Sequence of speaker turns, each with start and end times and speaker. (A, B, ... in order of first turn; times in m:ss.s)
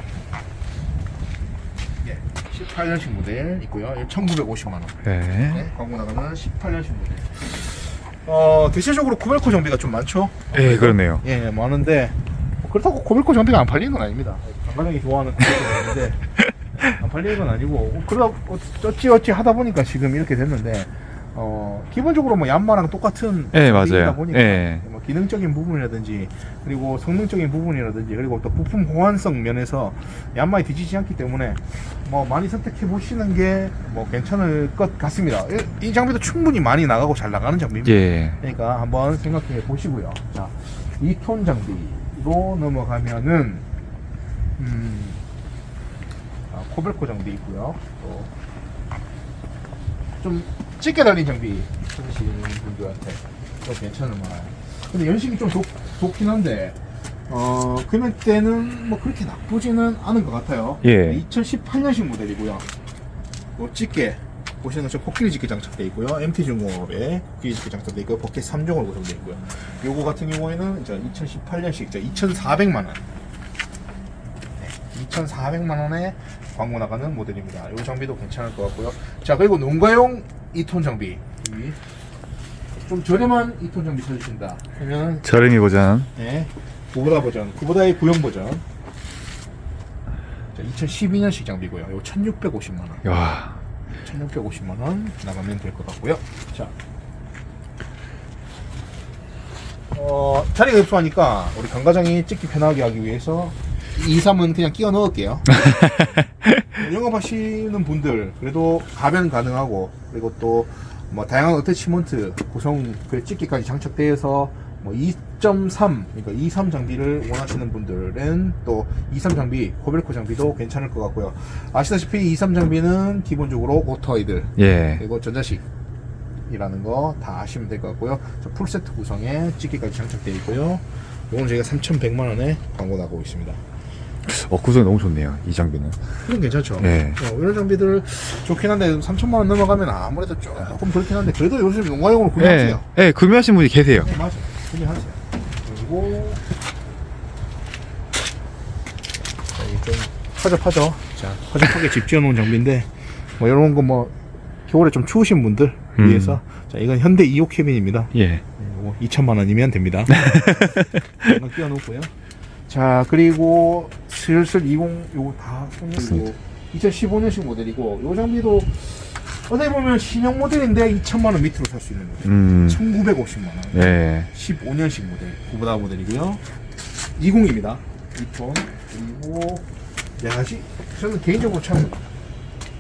0:02.0-0:43.6 A
0:05.0-0:05.6 B
0:10.5-0:11.2 B
0:23.5-0:24.8 B
0:37.8-0:38.4 B
0:44.6-0:45.2 A
0:46.5-0:48.3 A
0:50.2-1:02.7 A
1:00.8-1:01.2 B
1:03.6-1:13.0 A
1:14.6-1:21.8 A
1:22.8-1:25.5 A
1:25.2-1:26.1 B
1:26.1-1:28.6 A
1:30.5-1:33.0 A
1:33.0-1:33.5 B
1:34.0-1:36.7 A
1:39.9-1:45.6 A
1:46.7-2:05.6 A
2:04.6-2:05.0 B
2:06.4-2:13.6 A
2:14.2-2:16.0 B
2:16.2-2:22.9 A
2:16.8-2:17.2 B
2:22.4-2:24.1 B
2:24.0-2:26.4 A
2:29.5-2:34.1 A
2:34.7-2:42.1 A
2:36.0-2:36.4 B
2:38.1-2:38.4 B
2:40.1-2:41.2 B
2:42.7-2:56.4 A
2:52.2-2:52.8 B
2:53.7-2:54.3 B
2:57.1-2:59.6 A
3:00.2-3:02.0 A